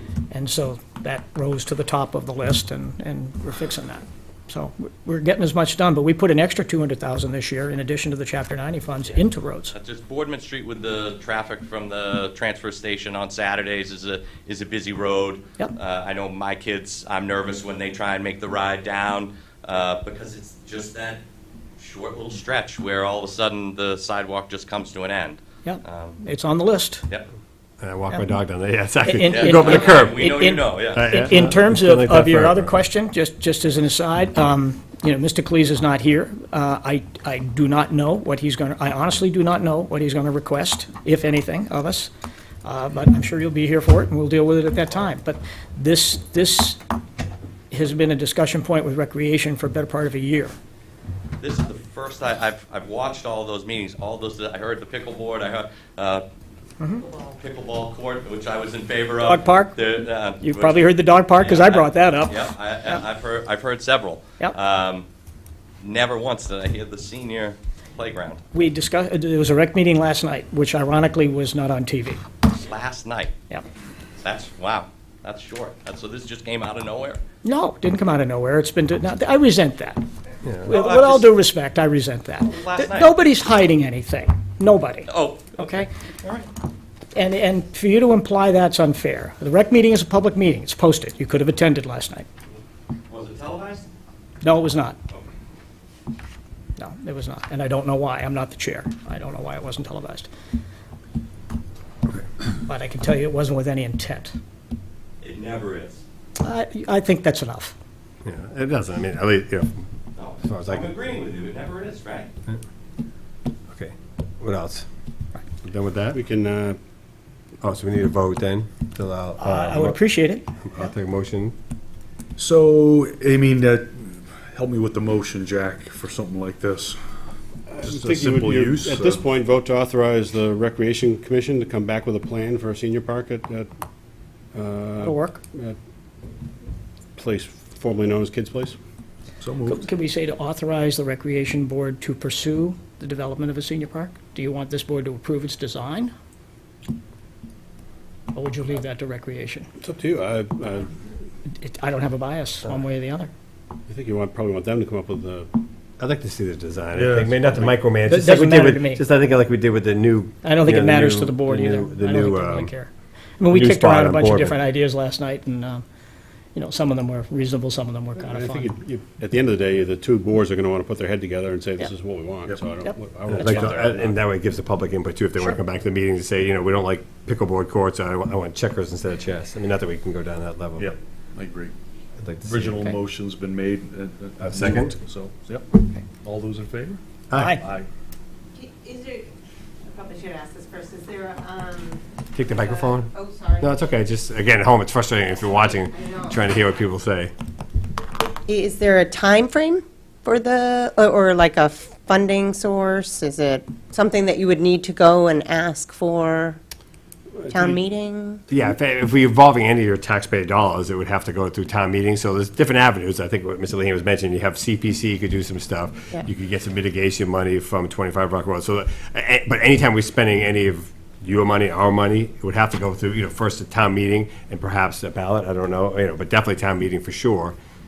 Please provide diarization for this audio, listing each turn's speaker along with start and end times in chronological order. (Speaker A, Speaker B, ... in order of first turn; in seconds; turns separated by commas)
Speaker A: 0.3-9.8, Speaker B: 9.7-21.2, Speaker B: 21.8-26.2, Speaker A: 25.6-27.1, Speaker C: 27.8-30.3, Speaker A: 29.0-42.1, Speaker B: 29.2-31.1, Speaker C: 30.9-32.7, Speaker A: 42.6-46.8, Speaker A: 47.7-50.5, Speaker B: 51.4-56.3, Speaker B: 57.0-60.9, Speaker A: 59.2-59.8, Speaker A: 60.4-63.0, Speaker B: 61.4-65.1, Speaker B: 65.8-68.4, Speaker A: 68.5-72.2, Speaker B: 72.6-73.3, Speaker B: 74.2-77.2, Speaker A: 77.4-80.0, Speaker A: 80.7-85.9, Speaker B: 80.7-81.3, Speaker B: 82.4-83.1, Speaker B: 85.1-86.5, Speaker A: 87.1-92.3, Speaker B: 93.1-93.9, Speaker A: 94.4-95.0, Speaker A: 96.8-100.3, Speaker A: 102.7-104.4, Speaker B: 105.2-106.0, Speaker A: 106.4-107.8, Speaker C: 108.2-109.9, Speaker B: 110.2-112.3, Speaker C: 110.4-110.9, Speaker C: 113.7-114.9, Speaker C: 115.6-116.2, Speaker D: 116.1-116.8, Speaker C: 117.6-120.0, Speaker A: 119.4-120.5, Speaker C: 120.7-121.5, Speaker E: 122.4-127.0, Speaker D: 127.8-133.7, Speaker E: 127.8-129.3, Speaker D: 134.5-135.8, Speaker A: 135.0-135.4, Speaker D: 137.2-138.8, Speaker E: 139.4-139.8, Speaker A: 139.7-146.1, Speaker A: 148.3-149.7, Speaker D: 149.8-150.9, Speaker A: 151.5-153.3, Speaker D: 153.9-155.5, Speaker C: 156.0-162.7, Speaker E: 156.9-157.7, Speaker A: 158.1-159.0, Speaker A: 160.4-165.8, Speaker C: 163.5-164.6, Speaker A: 166.6-168.7, Speaker D: 168.3-174.1, Speaker A: 172.8-173.8, Speaker C: 173.3-180.9, Speaker E: 180.8-181.7, Speaker C: 182.2-183.0, Speaker E: 182.4-185.7, Speaker C: 184.4-184.9, Speaker E: 186.2-187.9, Speaker C: 187.3-187.6, Speaker A: 187.3-187.6, Speaker F: 188.6-189.3, Speaker F: 189.8-192.0, Speaker C: 192.3-197.3, Speaker F: 192.6-193.7, Speaker F: 195.9-196.4, Speaker F: 198.5-206.6, Speaker D: 207.4-207.8, Speaker F: 207.5-208.4, Speaker C: 208.5-227.6